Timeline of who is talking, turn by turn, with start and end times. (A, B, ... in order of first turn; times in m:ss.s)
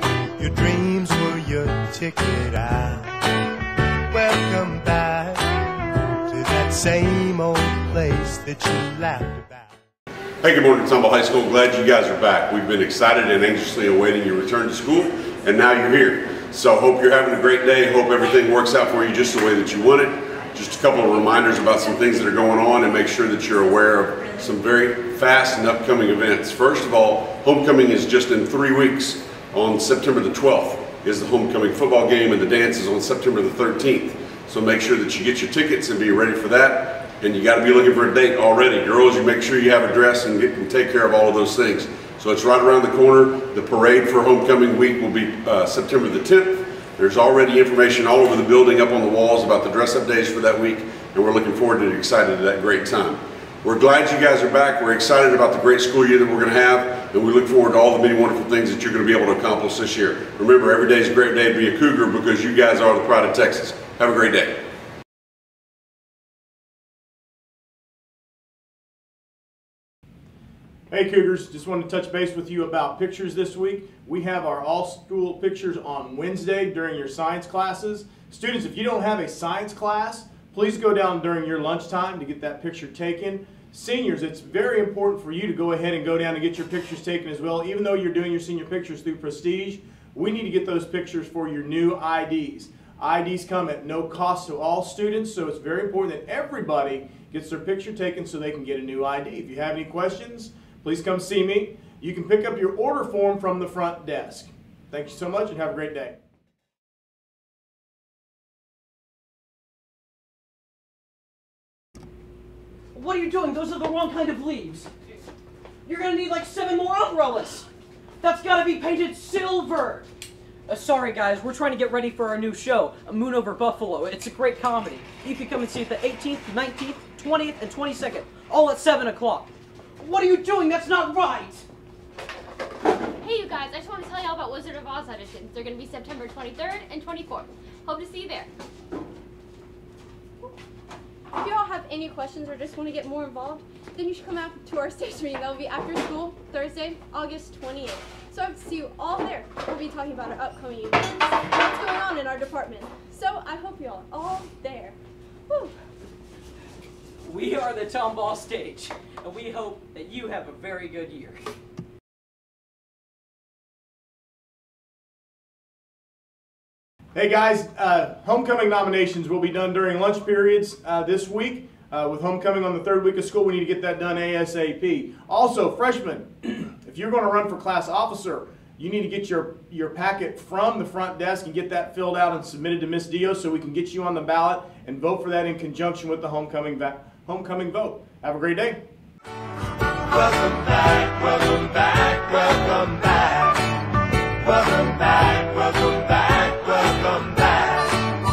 0:00.4-0:03.4 A
0:04.1-0:09.7 A
0:10.4-1:04.6 B
1:10.9-1:46.2 C
1:52.9-1:54.9 D
1:55.8-1:57.7 D
1:58.2-2:00.1 D
2:00.7-2:11.6 D
2:13.2-2:18.5 E
2:21.3-2:35.0 F
2:35.5-2:35.7 F
2:37.2-2:41.4 D
2:47.2-3:08.8 C
3:10.2-3:13.7 A
3:14.4-3:18.0 A